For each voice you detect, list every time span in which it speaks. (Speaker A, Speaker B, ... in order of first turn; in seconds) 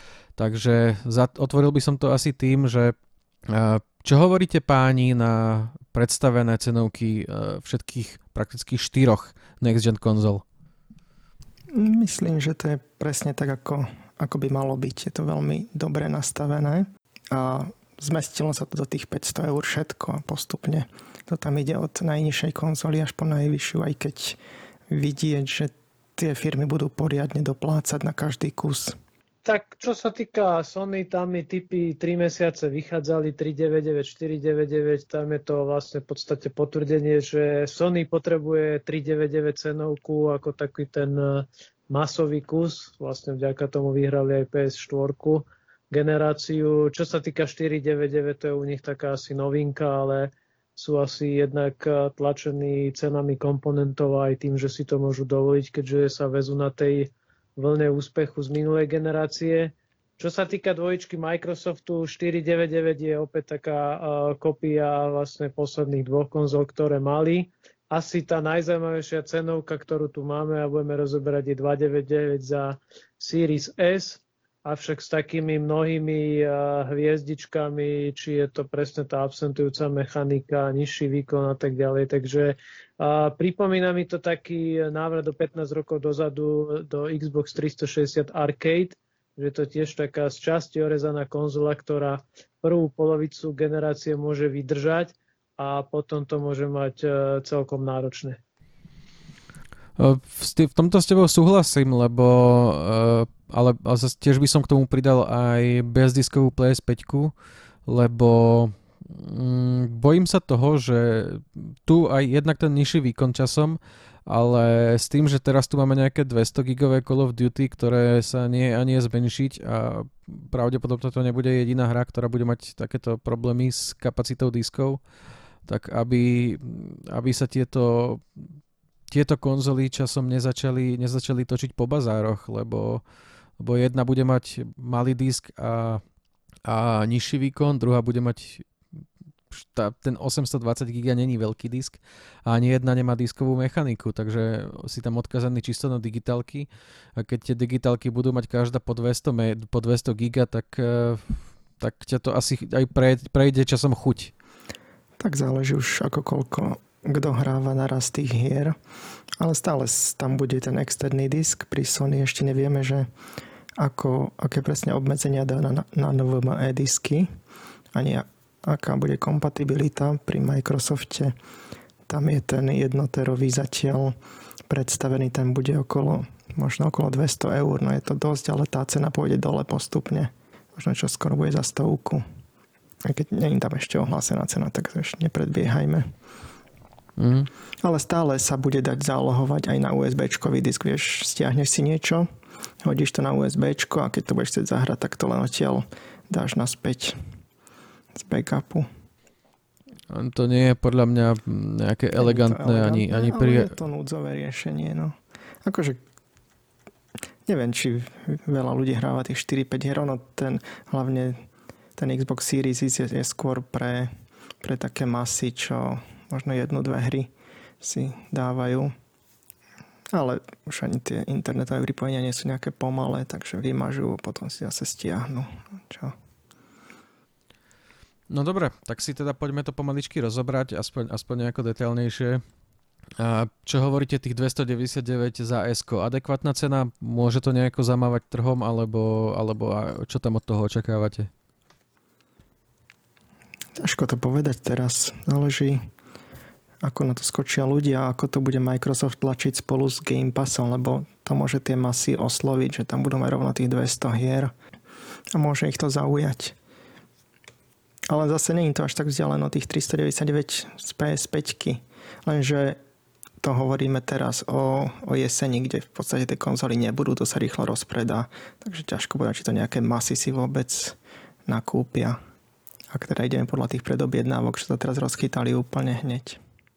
Speaker A: 0.3-2.9, 3.5-10.4, 100.0-107.3, 107.8-125.0, 125.7-128.5, 129.1-133.0, 133.6-136.0, 136.7-138.7, 139.5-154.3, 187.2-187.5, 200.1-203.7, 228.3-232.4, 233.2-241.3
Speaker B: 11.7-28.9, 155.2-158.8, 159.4-163.1, 163.8-167.3, 167.9-171.3, 172.1-174.1, 174.7-182.2, 183.0-186.1, 187.8-192.3, 192.8-197.2, 198.1-198.8, 202.2-206.0, 207.4-211.4, 211.9-218.9, 220.1-226.1, 243.8-245.8, 246.8-254.5, 255.3-256.6, 258.1-262.8, 263.4-272.2, 272.9-276.4
Speaker C: 29.4-98.4